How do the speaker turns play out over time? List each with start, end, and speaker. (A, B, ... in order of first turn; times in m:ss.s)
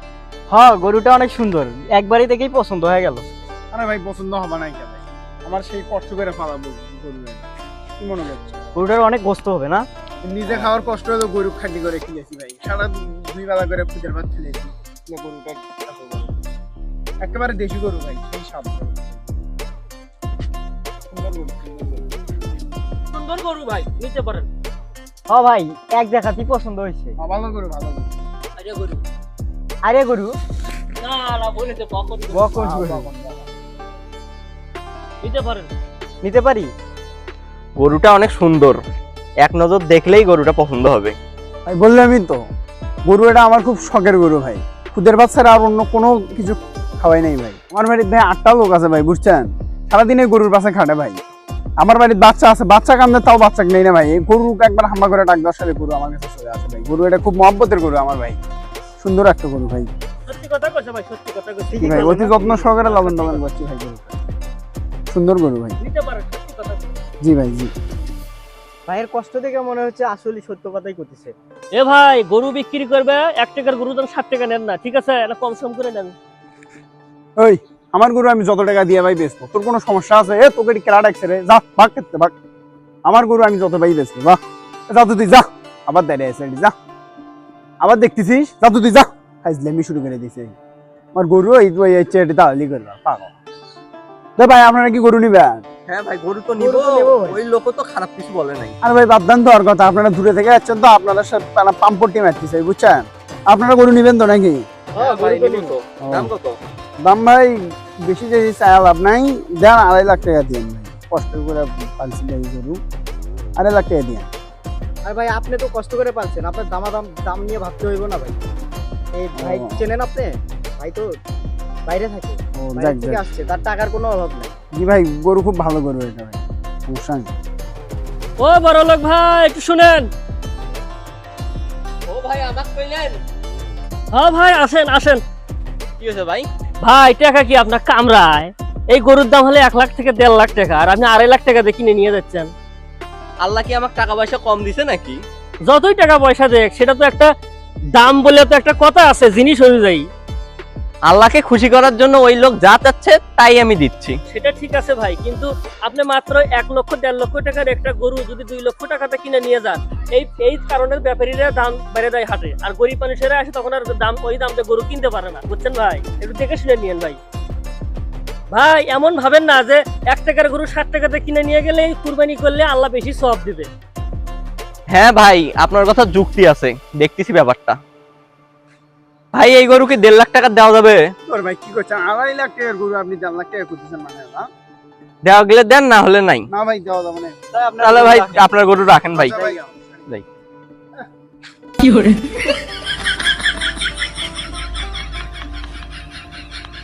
0:00.5-0:03.3 A
0:03.7-0:08.6 B
0:08.8-0:09.9 A
0:10.2-0:16.4 B
0:17.2-0:19.3 B
0:21.1-0:22.1 B
0:23.1-0:24.5 C
0:25.3-0:27.2 A
0:27.2-0:28.1 B
0:28.6-0:29.0 C
0:29.8-0:30.4 A
0:31.0-0:32.4 C
0:32.3-0:33.1 A
0:32.4-0:33.5 B
0:35.2-0:35.7 C
0:36.2-0:36.7 A
0:37.8-0:38.8 D
0:39.4-0:41.2 D
0:41.7-0:42.4 B
0:43.1-0:51.2 B
0:51.8-0:58.4 B
0:59.0-0:59.9 B
1:00.3-1:03.4 C
1:01.7-1:02.6 A
1:01.8-1:04.2 B
1:05.1-1:05.8 B
1:05.8-1:07.0 C
1:07.2-1:07.7 B
1:08.9-1:11.3 A
1:11.8-1:16.2 C
1:17.4-1:22.3 B
1:23.1-1:26.7 B
1:27.8-1:30.6 B
1:31.1-1:33.3 B
1:34.4-1:35.6 B
1:35.9-1:38.8 D
1:36.6-1:37.4 A
1:38.8-1:44.7 B
1:45.0-1:45.8 A
1:45.0-1:46.6 D
1:46.0-1:46.3 B
1:47.0-1:52.8 B
1:53.6-1:54.3 B
1:55.0-1:58.4 A
1:59.1-2:01.2 A
1:59.4-1:59.9 B
2:01.9-2:04.6 A
2:02.6-2:03.2 B
2:04.7-2:07.3 B
2:08.4-2:10.1 C
2:12.1-2:13.2 D
2:14.1-2:15.2 C
2:16.0-2:16.5 D
2:16.8-2:22.5 C
2:23.4-2:25.2 D
2:25.7-2:27.3 C
2:27.9-2:30.1 C
2:31.1-2:34.2 D
2:34.3-2:47.2 C
2:48.5-2:53.7 C
2:54.9-2:57.8 D
2:59.4-3:01.0 D
3:01.3-3:04.5 B
3:05.2-3:06.5 D
3:06.5-3:08.4 B
3:07.5-3:08.4 A
3:07.8-3:09.4 D
3:09.1-3:10.0 B